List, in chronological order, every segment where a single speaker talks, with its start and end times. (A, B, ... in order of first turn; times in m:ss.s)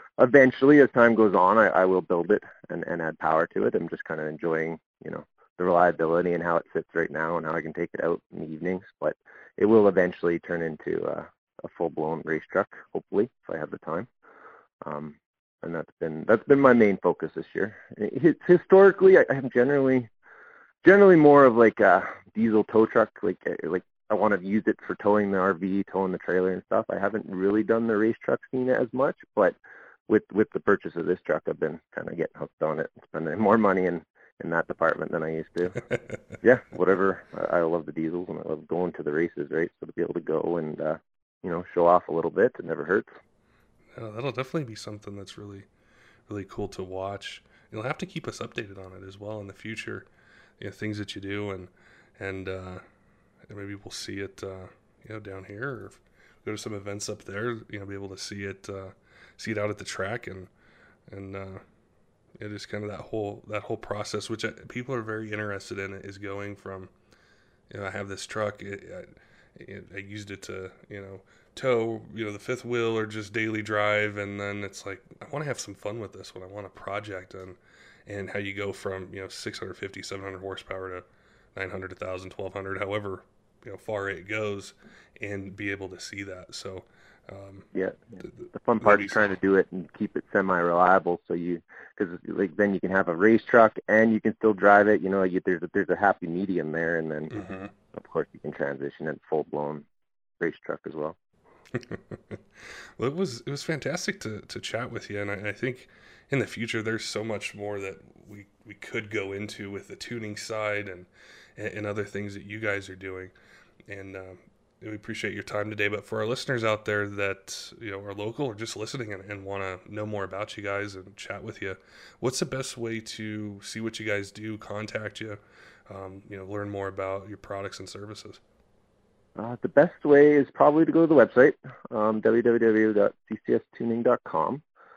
0:00.2-0:14.1 A
0:14.8-0:20.1 A
0:20.8-0:29.6 A
0:30.1-0:35.8 A
0:36.4-0:43.1 A
0:43.9-0:45.6 B
0:46.3-0:50.0 B
0:50.6-0:52.8 B
0:53.5-1:00.5 B
1:01.1-1:01.6 B
1:02.4-1:06.9 B
1:07.7-1:21.0 B
1:21.6-1:27.7 B
1:27.7-1:37.3 A
1:28.8-1:29.2 B
1:37.3-1:37.7 B
1:37.9-1:39.8 A
1:40.4-1:41.2 A
1:43.0-1:53.3 B
1:53.9-2:08.4 B
2:09.4-2:14.6 A